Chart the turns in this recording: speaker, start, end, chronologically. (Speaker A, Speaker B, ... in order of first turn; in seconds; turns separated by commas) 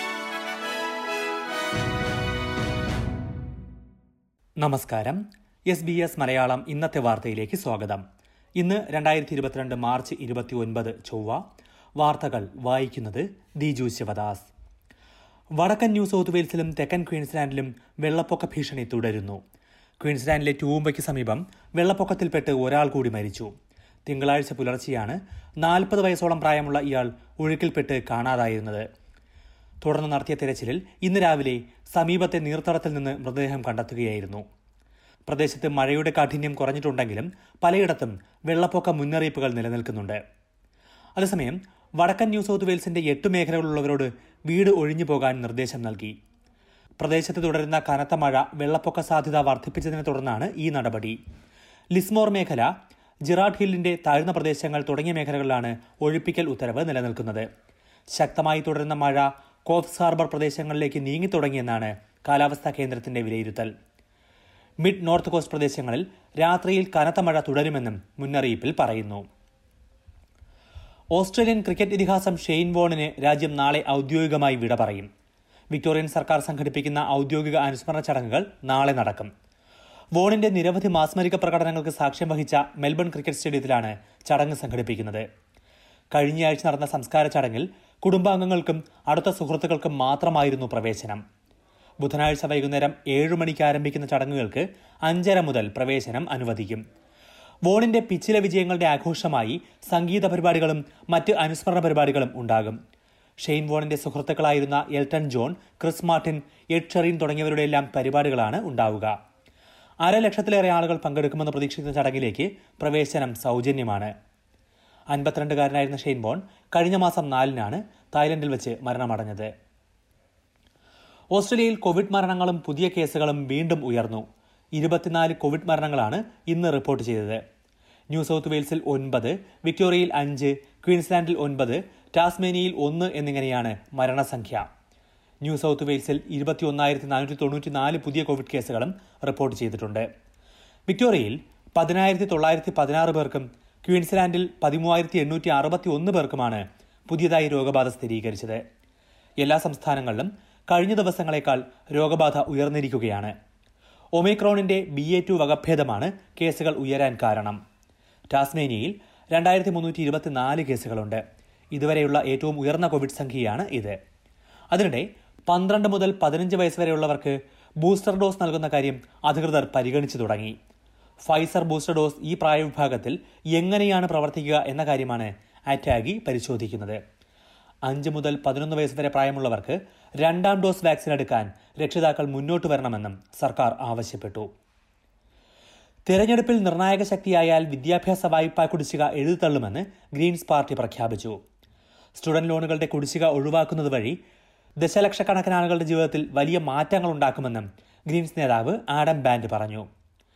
Speaker A: 4.6-8.0, Speaker A: 8.6-11.4, Speaker A: 12.0-14.5, Speaker A: 15.6-19.4, Speaker A: 20.0-23.5, Speaker A: 24.1-28.9, Speaker A: 29.8-34.4, Speaker A: 35.3-40.2, Speaker A: 41.2-46.1, Speaker A: 47.0-51.2, Speaker A: 51.9-52.7, Speaker A: 53.3-57.5, Speaker A: 58.1-63.7, Speaker A: 64.8-69.2, Speaker A: 71.1-75.1, Speaker A: 75.7-79.3, Speaker A: 80.2-85.2, Speaker A: 86.1-91.2, Speaker A: 92.0-96.8, Speaker A: 97.7-102.8, Speaker A: 103.4-109.1, Speaker A: 110.0-114.1, Speaker A: 115.1-119.5, Speaker A: 121.3-124.2, Speaker A: 124.8-127.4, Speaker A: 128.1-134.7, Speaker A: 135.4-140.1, Speaker A: 140.9-148.6, Speaker A: 149.4-153.3, Speaker A: 154.2-157.6, Speaker A: 158.3-161.2, Speaker A: 161.7-164.0, Speaker A: 164.7-170.6, Speaker A: 171.2-177.0, Speaker A: 177.9-184.5, Speaker A: 186.1-191.4, Speaker A: 192.2-194.2, Speaker A: 194.8-199.9